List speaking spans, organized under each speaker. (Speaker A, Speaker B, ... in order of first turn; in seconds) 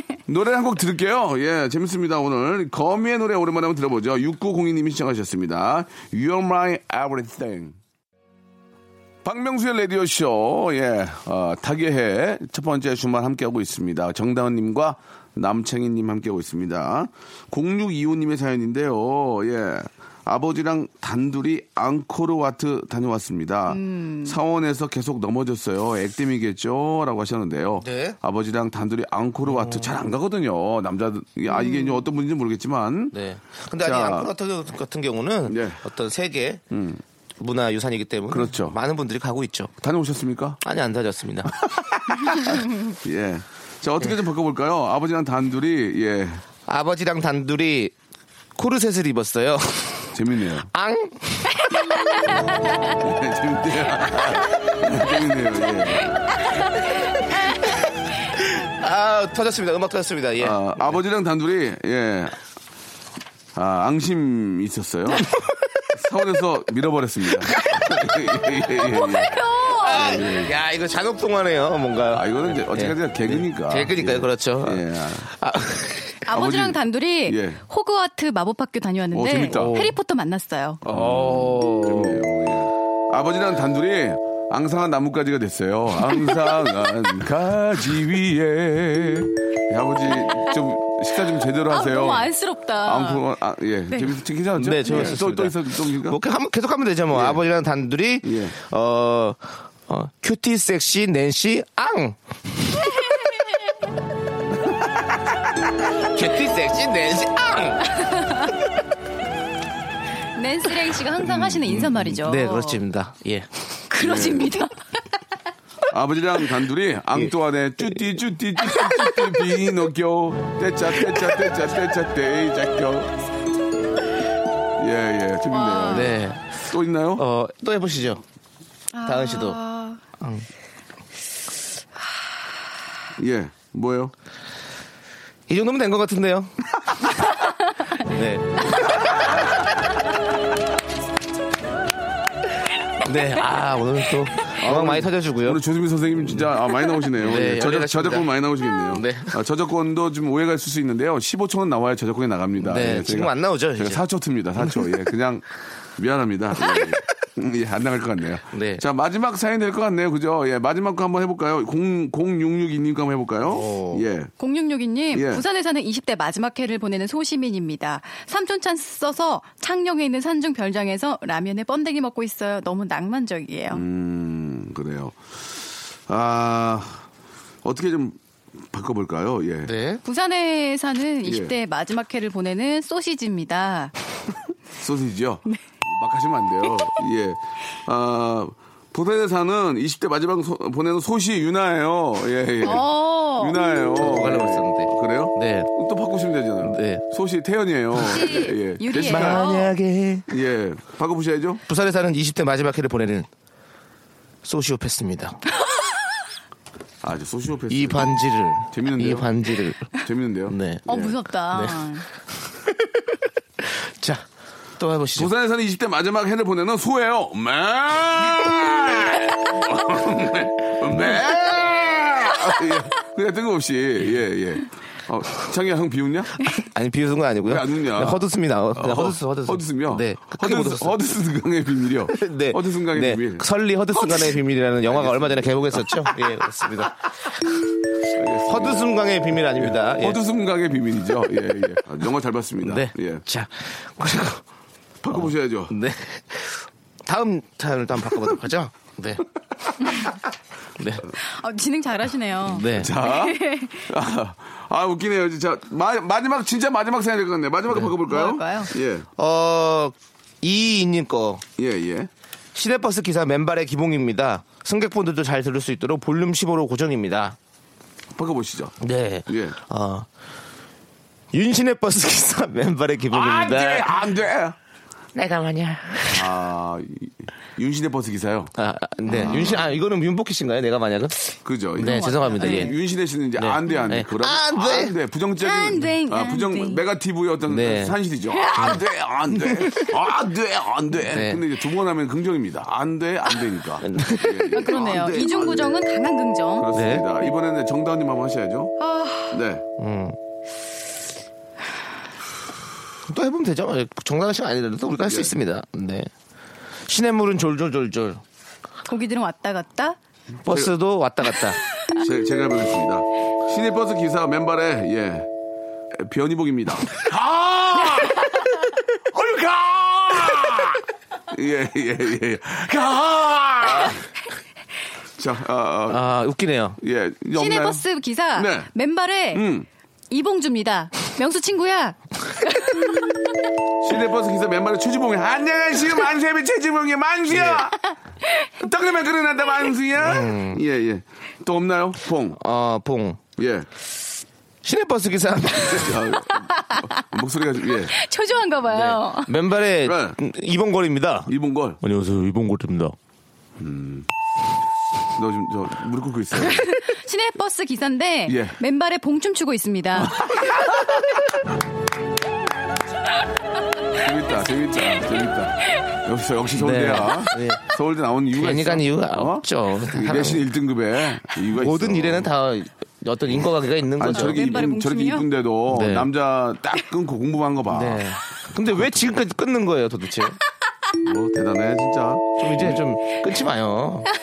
Speaker A: 0.3-7.8, 9.2-33.2, 33.8-34.3, 35.5-35.8, 36.7-37.0, 38.3-38.8, 39.8-40.6, 41.6-46.4, 50.1-50.7, 52.9-56.5, 60.4-62.4, 63.5-65.3, 65.9-70.5, 72.1-75.3, 76.3-77.6, 79.1-79.9, 80.8-92.3, 92.8-96.2, 97.1-97.4, 98.2-98.5, 111.2-111.8, 114.0-114.5, 115.9-123.1, 124.8-127.2, 133.2-134.1, 144.6-155.4, 156.0-164.3, 165.1-165.4, 173.7-177.0, 177.6-178.2, 178.7-179.7, 181.2-181.5, 184.8-199.4, 200.3-201.6, 207.0-208.1, 208.7-209.3, 210.0-211.2, 215.2-226.5, 227.4-233.4, 234.9-236.4, 238.1-238.9, 239.6-243.2, 245.0-245.7, 252.7-259.1, 261.6-262.1, 268.1-268.8, 269.3-269.6, 273.1-274.6, 276.1-278.5, 279.1-279.7, 281.4-295.7, 296.6-298.7, 299.3-299.6, 305.1-305.3, 311.9-315.3, 315.9-318.4, 319.1-324.0, 325.2-326.0, 326.8-327.8, 328.3-328.7, 329.3-329.7, 333.8-337.9, 338.6-342.4, 343.4-343.7, 345.6-348.0, 349.8-350.2, 351.3-351.8, 353.6-354.1, 355.1-356.7, 358.3-358.6, 360.1-360.6, 364.0-372.3, 374.0-378.0, 381.0-382.8
Speaker B: 23.7-24.4, 31.5-32.0, 68.8-70.1, 76.2-80.8, 91.7-93.2, 108.2-108.5, 110.3-112.8, 113.9-114.8, 125.5-126.2, 128.9-130.0, 164.4-173.8, 180.0-183.9, 192.6-193.6, 197.9-199.7, 210.9-212.1, 251.2-253.9, 258.1-258.7, 279.0-279.5, 281.8-282.7, 285.4-286.8, 288.4-288.7, 294.5-296.7, 298.8-299.4, 308.9-310.0, 327.3-329.4, 330.1-333.1, 347.9-349.3, 356.3-360.2, 374.1-375.2
Speaker C: 27.8-28.2, 29.4-29.9, 33.1-36.6, 37.4-39.7, 40.6-41.5, 46.7-47.9, 48.5-50.1, 50.7-51.9, 57.6-60.6, 65.1-65.7, 67.6-67.9, 69.8-76.2, 79.5-79.9, 80.8-82.2, 94.5-103.1, 106.0-108.0, 111.7-113.7, 125.9-126.5, 127.2-128.2, 129.0-129.6, 130.2-130.5, 135.5-136.5, 138.0-139.4, 143.0-145.6, 147.2-148.3, 148.9-149.4, 152.6-154.0, 154.6-155.1, 156.6-157.0, 158.5-158.8, 163.4-164.0, 179.6-180.0, 193.9-195.7, 196.6-197.0, 198.9-200.3, 201.7-203.3, 204.4-205.4, 207.7-209.9, 210.5-210.9, 211.5-211.8, 212.6-214.2, 214.8-215.3, 226.6-231.0, 232.1-237.0, 238.4-240.2, 242.6-244.4, 245.1-249.2, 250.8-251.0, 252.5-252.9, 259.2-261.4, 262.5-267.4, 268.8-270.1, 271.3-273.9, 275.1-276.4, 278.6-282.7, 283.4-284.9, 287.5-288.0, 288.5-288.8, 289.4-289.7, 291.0-291.4, 293.8-295.7, 296.7-297.1, 299.8-300.2, 303.1-306.1, 306.9-308.2, 310.4-311.6, 325.9-326.8, 337.3-337.7, 340.0-340.6, 342.4-343.2, 344.6-346.1, 348.7-352.9, 366.5-367.6, 368.3-370.5, 371.5-374.4, 375.7-376.1, 377.7-380.4, 382.4-384.1